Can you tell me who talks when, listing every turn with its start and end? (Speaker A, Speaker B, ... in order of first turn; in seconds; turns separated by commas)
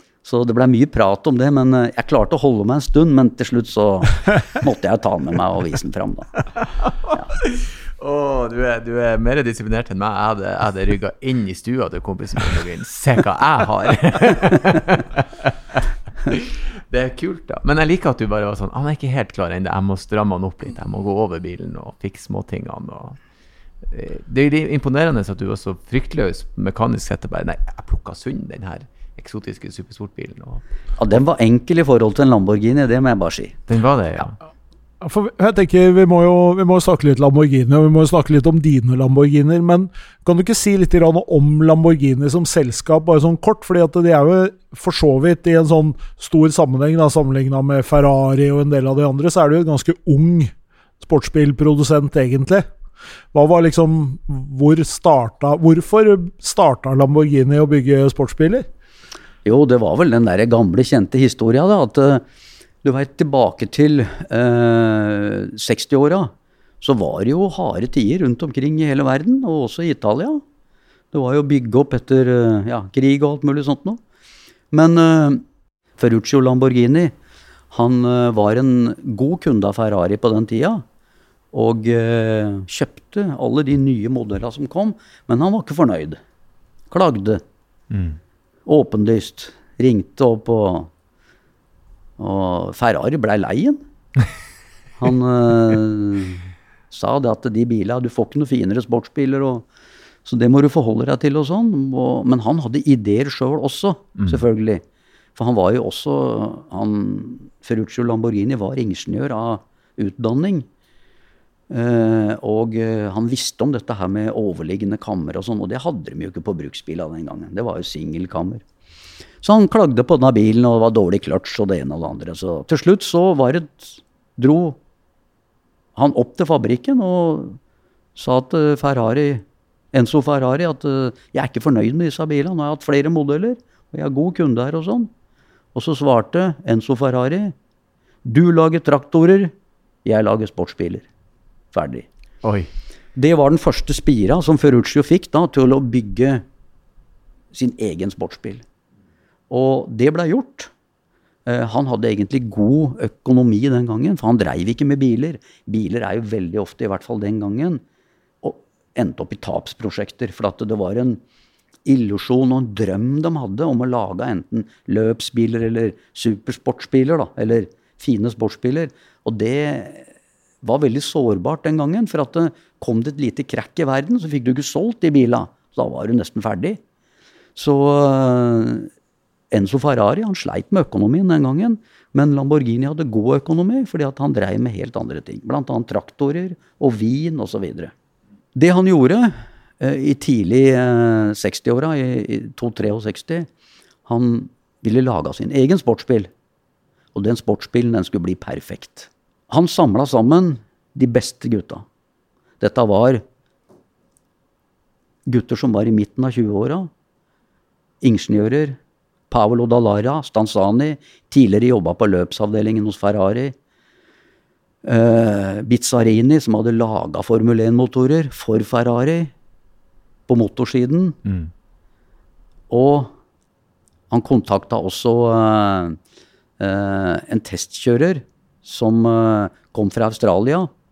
Speaker A: 0.2-6.4, Speaker B: 6.8-23.2, Speaker B: 23.9-30.6, Speaker A: 31.0-33.6, Speaker B: 33.7-34.4, Speaker C: 35.0-52.6, Speaker C: 53.3-58.6, Speaker A: 59.4-62.2, Speaker A: 62.8-70.4, Speaker A: 71.1-74.0, Speaker A: 74.7-75.4, Speaker A: 76.0-77.1, Speaker A: 77.7-80.8, Speaker A: 81.5-86.2, Speaker A: 86.9-87.4, Speaker B: 87.9-88.2, Speaker A: 88.7-90.9, Speaker A: 92.2-93.8, Speaker A: 95.0-99.7, Speaker A: 100.2-104.8, Speaker B: 104.2-104.4, Speaker A: 105.3-110.7, Speaker A: 111.7-118.6, Speaker A: 119.4-124.8, Speaker A: 126.0-127.6, Speaker A: 128.1-135.1, Speaker A: 135.7-137.5, Speaker A: 138.2-139.5, Speaker A: 140.0-141.1, Speaker A: 141.7-142.1, Speaker B: 142.4-142.7, Speaker A: 143.2-146.4, Speaker A: 147.5-148.6, Speaker A: 149.5-150.7, Speaker A: 151.4-157.8, Speaker A: 158.4-161.2, Speaker A: 161.8-170.1, Speaker A: 170.6-176.8, Speaker A: 177.6-178.9, Speaker A: 179.5-187.9, Speaker A: 188.5-193.5, Speaker A: 194.1-196.3, Speaker A: 197.1-201.8, Speaker A: 202.6-203.2, Speaker A: 205.2-206.9, Speaker A: 208.0-208.8, Speaker A: 209.3-213.5, Speaker A: 214.8-219.3, Speaker A: 220.3-221.2, Speaker B: 221.2-221.5, Speaker A: 222.7-223.1, Speaker A: 224.1-226.0, Speaker A: 226.6-230.7